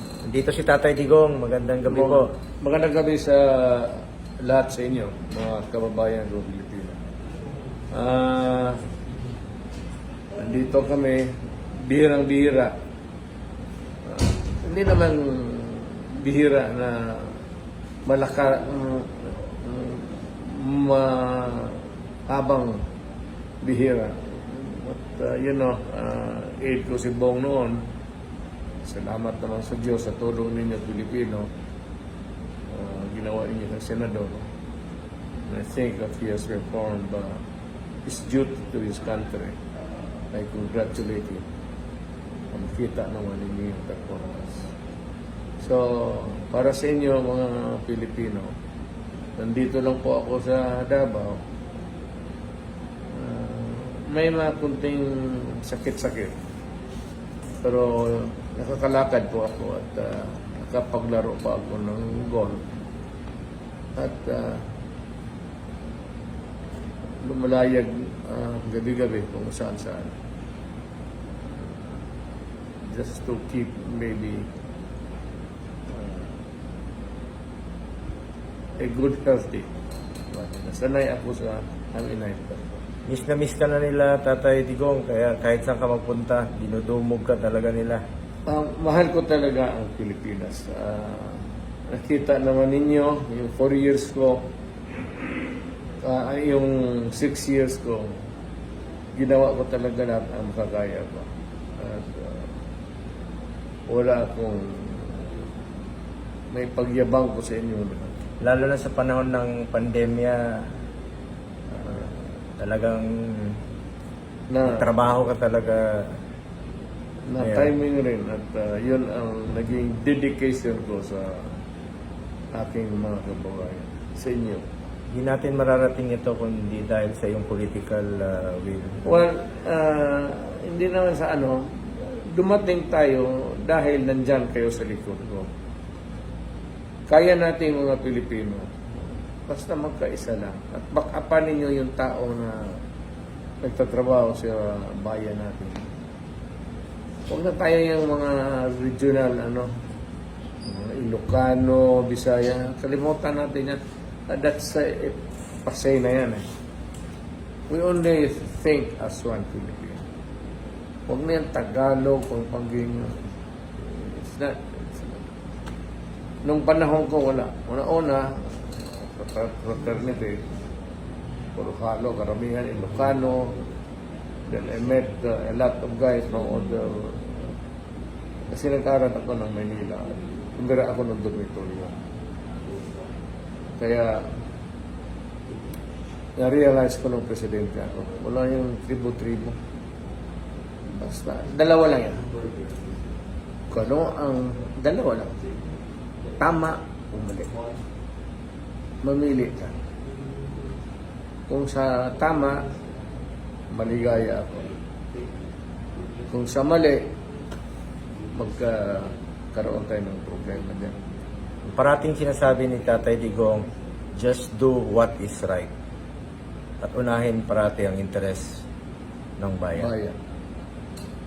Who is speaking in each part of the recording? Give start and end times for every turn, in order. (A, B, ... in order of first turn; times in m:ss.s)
0:00.2-0:02.3 A
0:01.9-0:07.0 B
0:07.9-0:08.8 B
0:10.4-0:11.3 B
0:11.9-0:12.7 B
0:14.1-0:17.4 B
0:18.0-0:22.8 B
0:23.6-0:27.8 B
0:28.8-0:31.5 B
0:32.7-0:34.5 B
0:35.5-0:37.4 B
0:38.0-0:39.7 B
0:40.3-0:41.5 B
0:42.5-0:44.7 B
0:45.6-0:48.5 B
0:49.4-0:51.4 B
0:53.1-0:56.4 B
0:57.6-1:02.6 B
1:04.0-1:04.7 B
1:07.2-1:10.2 B
1:12.9-1:14.5 B
1:15.9-1:16.4 B
1:18.8-1:19.7 B
1:20.3-1:22.8 B
1:23.1-1:28.0 A
1:28.5-1:34.5 B
1:36.0-1:38.2 B
1:39.2-1:42.5 B
1:43.9-1:45.4 B
1:46.5-1:48.2 B
1:48.4-1:50.7 A
1:51.8-1:52.1 B
1:52.6-1:53.6 A
1:54.5-1:54.9 B
1:54.6-1:56.2 A
1:57.3-2:01.6 B
1:57.4-1:57.7 A
2:02.5-2:04.6 B
2:05.1-2:09.2 A
2:09.0-2:15.5 B
2:17.1-2:18.9 B
2:19.5-2:22.8 B
2:23.6-2:25.9 B
2:27.3-2:29.7 B
2:30.6-2:36.4 B
2:37.7-2:40.0 B
2:41.1-2:43.2 B
2:43.8-2:45.3 B
2:46.4-2:50.5 B
2:51.6-2:53.6 B
2:54.5-2:57.5 B
2:58.5-3:02.0 B
3:03.8-3:04.3 B
3:06.4-3:09.6 B
3:11.0-3:12.3 B
3:13.7-3:15.4 B
3:16.4-3:17.5 B
3:19.0-3:19.8 B
3:21.5-3:22.6 B
3:23.7-3:24.7 B
3:26.3-3:27.0 B
3:28.3-3:31.0 B
3:31.7-3:35.7 A
3:36.8-3:38.6 A
3:39.4-3:39.9 A
3:39.8-3:40.2 B